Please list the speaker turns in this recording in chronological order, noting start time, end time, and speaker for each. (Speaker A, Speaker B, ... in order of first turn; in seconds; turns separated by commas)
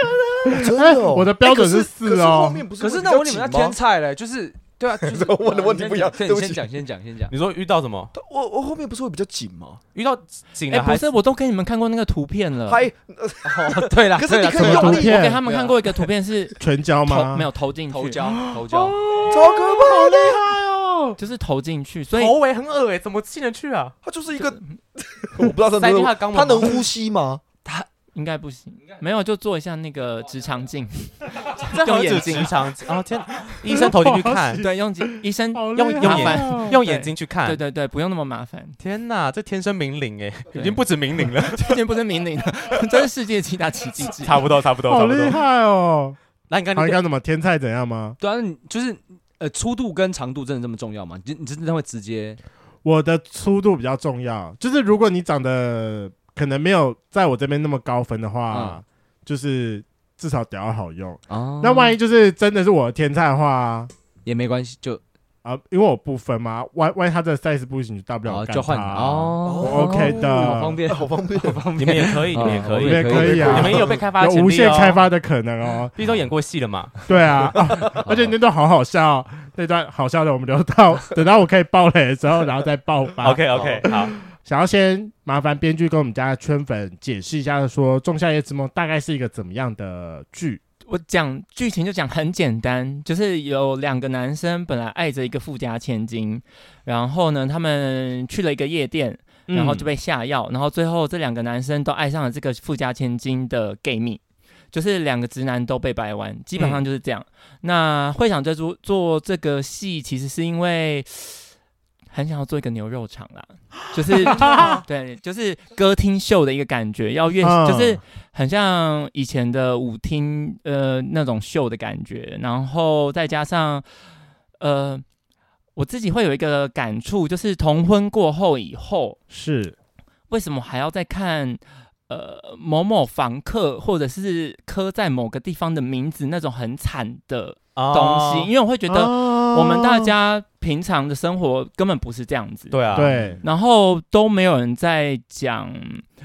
Speaker A: 0.4-3.8, Speaker B: 0.5-2.6, Speaker C: 2.8-7.3, Speaker A: 5.0-6.7, Speaker D: 7.3-8.1, Speaker A: 8.1-9.8, Speaker D: 9.9-11.1, Speaker E: 10.7-12.8, Speaker A: 12.7-15.3, Speaker C: 13.4-15.7, Speaker B: 14.6-15.4, Speaker E: 14.6-18.3, Speaker B: 16.6-17.5, Speaker C: 17.9-19.0, Speaker A: 19.2-20.5, Speaker B: 19.7-21.1, Speaker E: 21.2-22.3, Speaker D: 22.1-24.0, Speaker A: 24.0-27.4, Speaker D: 25.8-26.9, Speaker E: 28.1-32.6, Speaker D: 31.7-34.6, Speaker B: 33.7-36.8, Speaker E: 34.6-38.8, Speaker D: 35.8-37.6, Speaker D: 38.8-41.8, Speaker E: 40.5-44.5, Speaker D: 44.2-45.4, Speaker B: 44.9-46.2, Speaker D: 46.5-47.0, Speaker B: 46.7-48.2, Speaker C: 48.2-52.4, Speaker B: 52.8-63.9, Speaker C: 58.5-58.8, Speaker C: 61.3-62.0, Speaker C: 64.2-65.0, Speaker B: 65.4-70.8, Speaker C: 68.3-73.8, Speaker A: 69.5-74.0, Speaker D: 71.8-75.0, Speaker B: 72.4-75.9, Speaker D: 76.0-77.5, Speaker B: 77.1-90.6, Speaker C: 77.8-78.3, Speaker D: 83.2-84.2, Speaker A: 83.5-83.9, Speaker E: 90.9-104.2, Speaker B: 99.5-99.9, Speaker E: 104.7-111.5, Speaker E: 112.1-123.8, Speaker B: 114.3-114.8, Speaker B: 117.4-118.0, Speaker E: 124.6-125.0, Speaker E: 125.8-129.2, Speaker B: 129.3-129.8, Speaker E: 130.3-142.8, Speaker D: 137.8-138.5, Speaker B: 138.9-140.1, Speaker D: 142.7-143.2, Speaker B: 142.9-143.4, Speaker E: 143.4-146.1